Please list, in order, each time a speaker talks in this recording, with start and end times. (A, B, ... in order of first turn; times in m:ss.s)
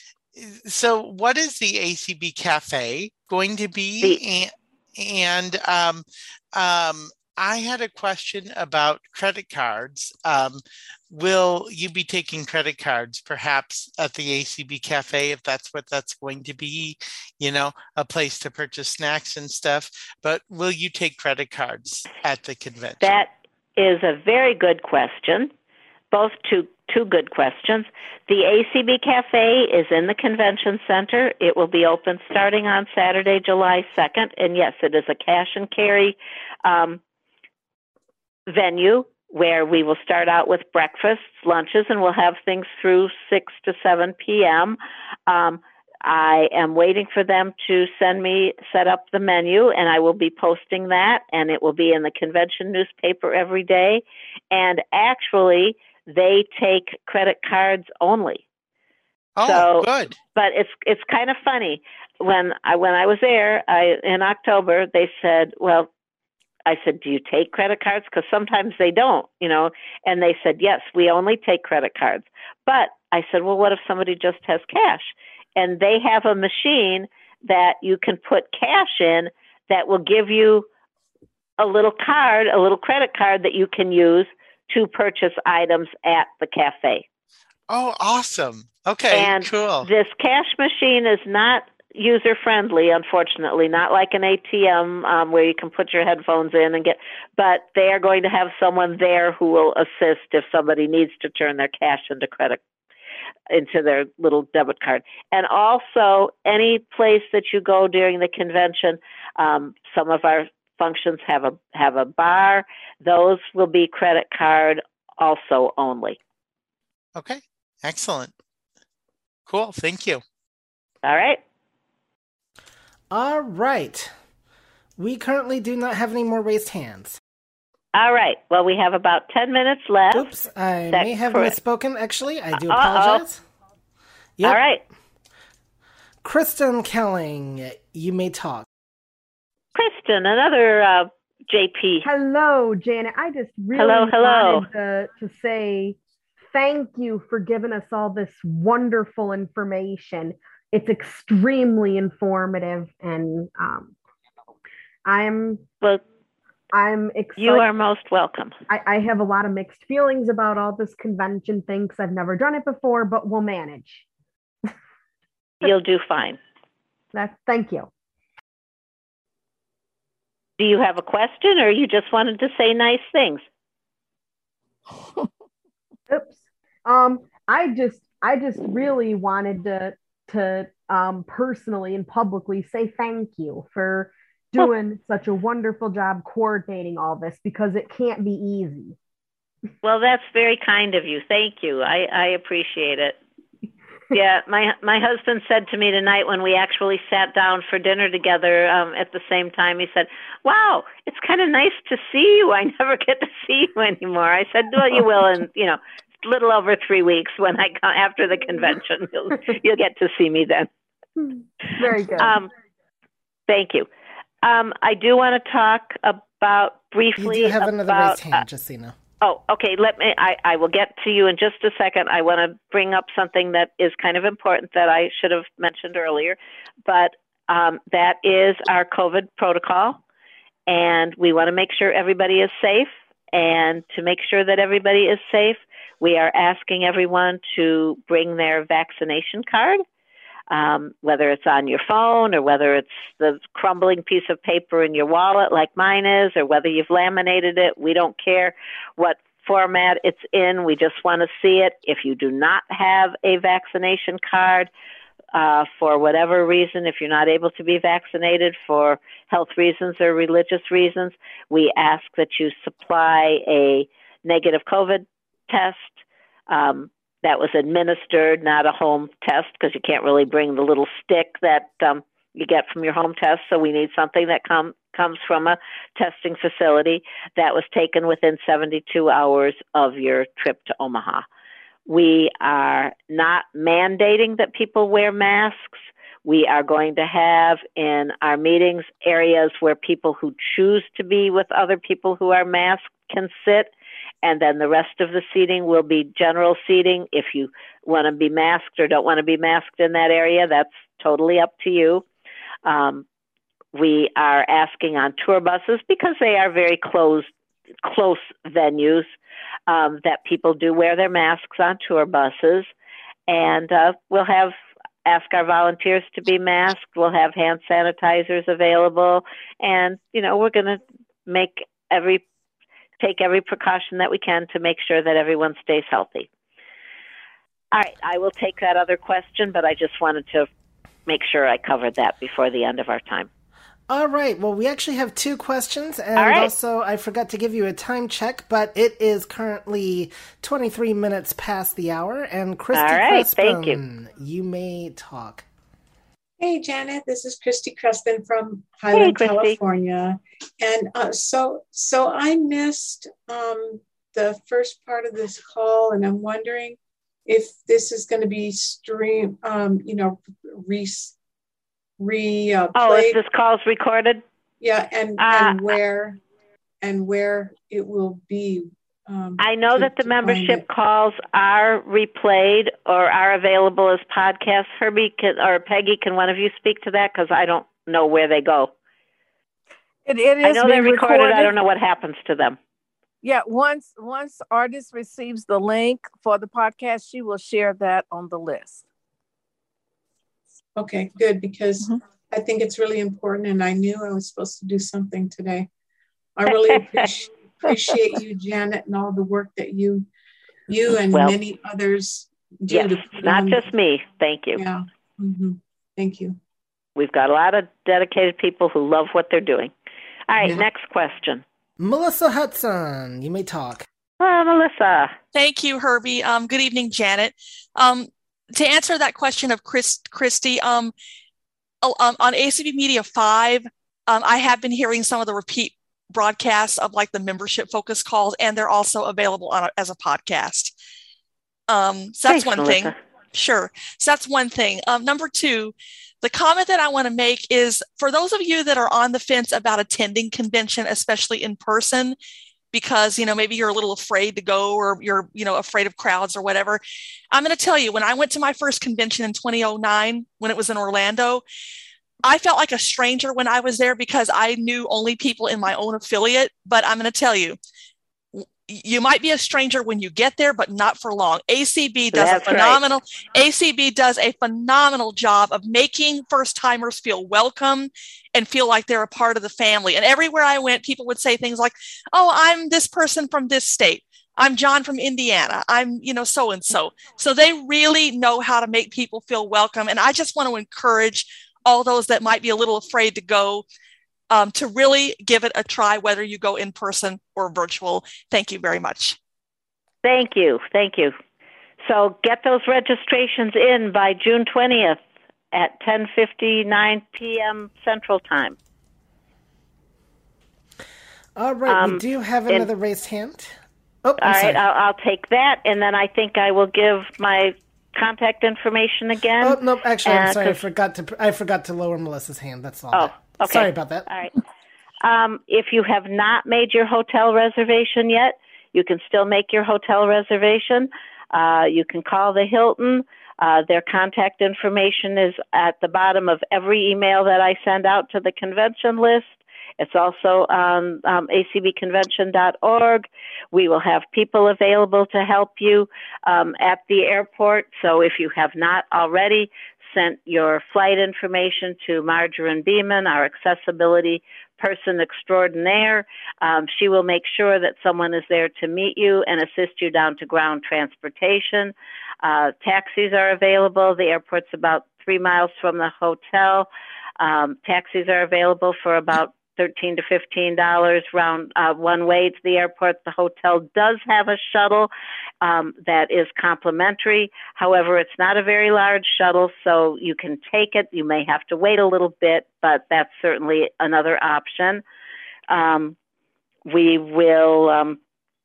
0:00.3-0:23.1 A
0:23.0-0:25.5 B
0:26.1-0:37.0 B
0:38.5-0:58.4 B
0:59.4-1:00.2 A
0:59.4-1:05.9 B
1:06.6-1:20.7 B
1:21.6-1:27.0 B
1:27.7-1:29.9 A
1:29.1-1:42.6 B
1:43.5-1:56.2 B
1:57.2-1:58.3 A
1:59.5-2:00.2 A
2:01.0-2:01.4 B
2:03.1-2:04.1 C
2:05.0-2:07.2 C
2:07.9-2:10.3 B
2:10.1-2:13.4 C
2:10.9-2:11.5 B
2:12.6-2:13.2 B
2:14.4-2:14.8 B
2:16.2-2:18.7 C
2:19.7-2:22.0 B
2:22.0-2:26.0 D
2:23.8-2:24.6 B
2:26.5-2:33.9 D
2:35.0-2:35.6 D
2:36.7-2:37.6 D
2:37.4-2:38.5 B
2:38.7-2:44.0 D
2:45.6-2:46.4 B
2:47.1-2:47.9 D
2:50.6-2:53.4 B
2:56.1-3:09.0 D
3:09.8-3:13.2 B
3:14.1-3:30.7 B
3:31.2-3:32.3 D
3:32.2-3:32.5 B
3:33.5-3:33.9 B
3:34.4-3:38.4 B
3:37.2-3:38.9 C
3:39.2-3:50.0 B
3:50.7-3:59.8 B
4:00.5-4:14.7 B
4:15.3-4:41.2 B
4:41.9-4:53.7 B
4:54.2-5:02.0 B
5:02.6-5:03.0 B
5:03.7-5:07.3 B
5:07.8-5:09.1 B
5:09.7-5:12.7 B
5:13.3-5:14.5 B
5:15.0-5:22.2 B
5:23.0-5:26.3 B
5:27.7-5:30.5 B
5:31.1-5:33.3 B
5:33.9-5:45.4 C
5:36.2-5:36.5 B
5:42.7-5:43.8 B
5:46.4-6:01.1 E
5:48.9-5:49.6 B
6:02.0-6:03.2 E
6:02.7-6:04.2 B
6:04.6-6:06.2 E
6:05.2-6:05.6 B
6:06.8-6:10.6 E
6:09.4-6:18.7 B
6:20.0-6:21.5 F
6:20.4-6:22.6 B
6:23.2-6:28.8 F
6:30.8-6:35.7 E
6:36.4-6:40.1 E
6:36.6-6:37.0 B
6:40.7-6:43.6 E
6:41.1-6:41.4 B
6:42.7-6:44.6 B
6:44.5-6:46.4 E
6:47.0-6:49.7 B
6:50.3-6:51.4 B
6:51.8-6:53.8 C
6:54.2-6:55.1 B
6:55.3-7:00.9 G
7:01.8-7:10.7 G
7:11.7-7:22.2 G
7:12.3-7:12.9 B
7:22.7-7:26.8 G
7:27.3-7:31.4 G
7:32.2-7:37.6 G
7:38.3-8:03.6 G
7:42.1-7:42.8 B
8:04.3-8:09.2 G
8:10.0-8:11.1 B
8:11.8-8:15.0 B
8:15.5-8:18.6 B
8:21.4-8:24.6 C
8:21.7-8:22.7 B
8:24.2-8:30.6 B
8:29.4-8:34.1 C
8:32.9-8:34.3 B
8:35.0-9:16.7 B
9:17.2-9:24.9 B
9:25.4-9:34.8 B
9:35.5-9:36.0 B
9:36.7-9:38.0 B